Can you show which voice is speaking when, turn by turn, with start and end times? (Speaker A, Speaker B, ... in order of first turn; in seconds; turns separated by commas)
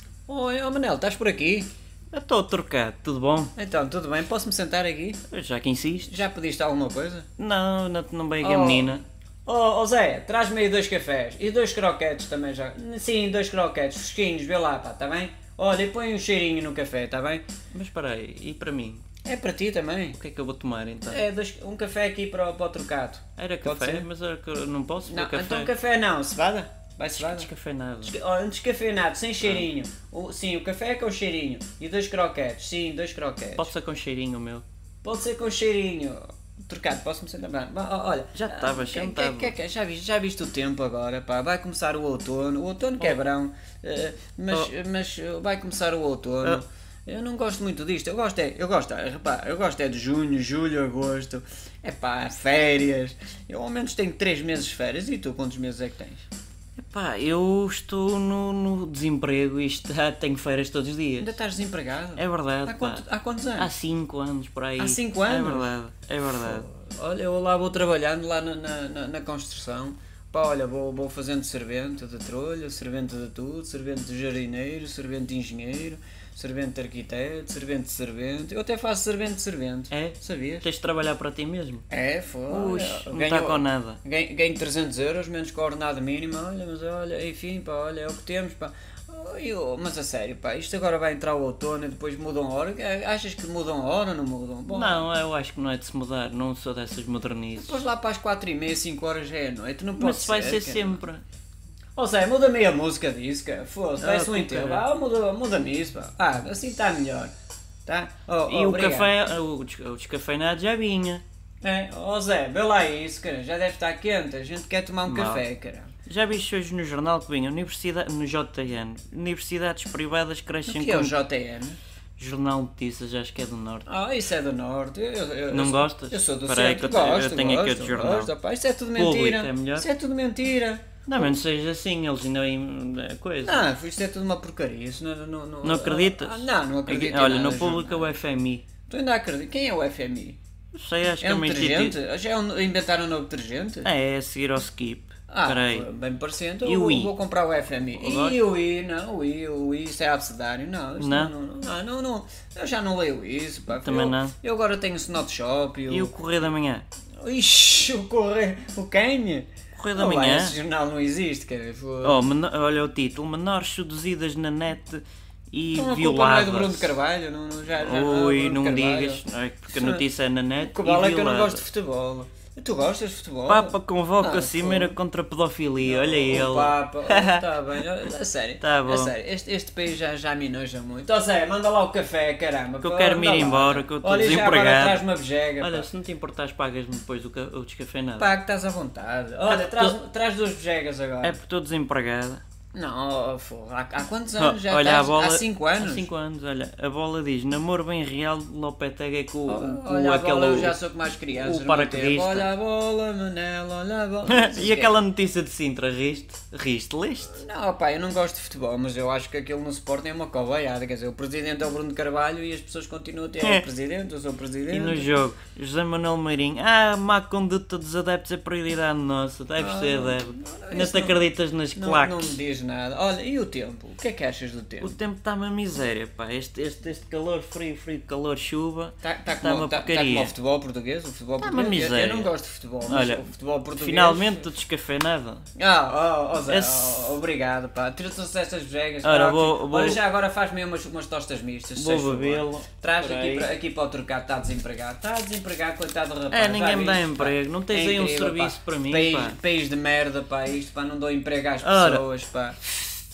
Speaker A: 0.3-1.7, Speaker B: 2.1-3.5, Speaker A: 3.5-5.2, Speaker B: 5.3-6.2, Speaker A: 6.0-7.3, Speaker B: 7.4-9.0, Speaker A: 8.4-17.4, Speaker B: 17.7-19.0, Speaker A: 19.2-20.2, Speaker B: 20.1-21.2, Speaker A: 21.1-24.1, Speaker B: 23.4-25.7, Speaker A: 25.1-27.5, Speaker B: 27.1-28.1, Speaker A: 28.0-33.7, Speaker B: 33.6-34.6, Speaker A: 35.0-56.2, Speaker B: 38.3-39.5, Speaker B: 56.8-61.4, Speaker A: 61.2-63.7, Speaker B: 62.1-63.0, Speaker B: 63.6-66.6, Speaker A: 64.8-65.7, Speaker A: 66.2-80.7, Speaker B: 79.9-81.8, Speaker A: 81.9-95.1, Speaker B: 82.5-84.0, Speaker B: 94.7-97.8, Speaker A: 97.5-101.0, Speaker B: 100.0-101.2, Speaker A: 102.0-107.3, Speaker B: 104.0-104.8, Speaker A: 107.8-109.1, Speaker B: 108.5-111.2, Speaker A: 111.6-115.9, Speaker B: 115.0-115.4, Speaker B: 116.0-121.1, Speaker A: 120.7-121.8, Speaker B: 122.2-123.8, Speaker A: 123.9-131.3, Speaker B: 125.5-128.3, Speaker B: 128.9-129.9, Speaker B: 131.1-133.6, Speaker A: 133.4-138.1, Speaker B: 135.6-138.6, Speaker A: 138.9-140.4, Speaker B: 140.7-141.9, Speaker A: 141.2-143.9, Speaker B: 143.8-145.9, Speaker A: 145.3-156.1, Speaker B: 146.6-147.1, Speaker B: 147.9-148.4, Speaker B: 151.0-151.3, Speaker B: 153.7-154.3, Speaker B: 155.9-156.8, Speaker A: 157.2-162.2, Speaker B: 159.7-160.6, Speaker B: 162.0-166.9, Speaker A: 165.7-170.0, Speaker B: 167.8-171.6, Speaker A: 170.6-174.9, Speaker B: 173.5-177.5, Speaker A: 175.8-185.9, Speaker B: 178.6-179.1, Speaker B: 182.8-185.0, Speaker B: 185.6-188.3, Speaker A: 188.2-191.4, Speaker B: 189.4-189.9, Speaker B: 191.2-192.4, Speaker A: 192.7-196.1, Speaker B: 194.4-200.8, Speaker A: 199.5-204.9, Speaker B: 201.4-202.5, Speaker B: 204.3-207.4, Speaker A: 207.2-215.1, Speaker B: 213.4-213.7, Speaker B: 214.7-222.4, Speaker A: 219.6-225.0, Speaker B: 224.8-230.3, Speaker A: 229.0-234.5, Speaker B: 231.4-232.3, Speaker B: 232.9-235.4, Speaker A: 235.6-252.6, Speaker B: 236.5-237.2, Speaker B: 239.0-240.0, Speaker B: 241.8-243.5, Speaker B: 246.3-249.4, Speaker B: 251.6-252.0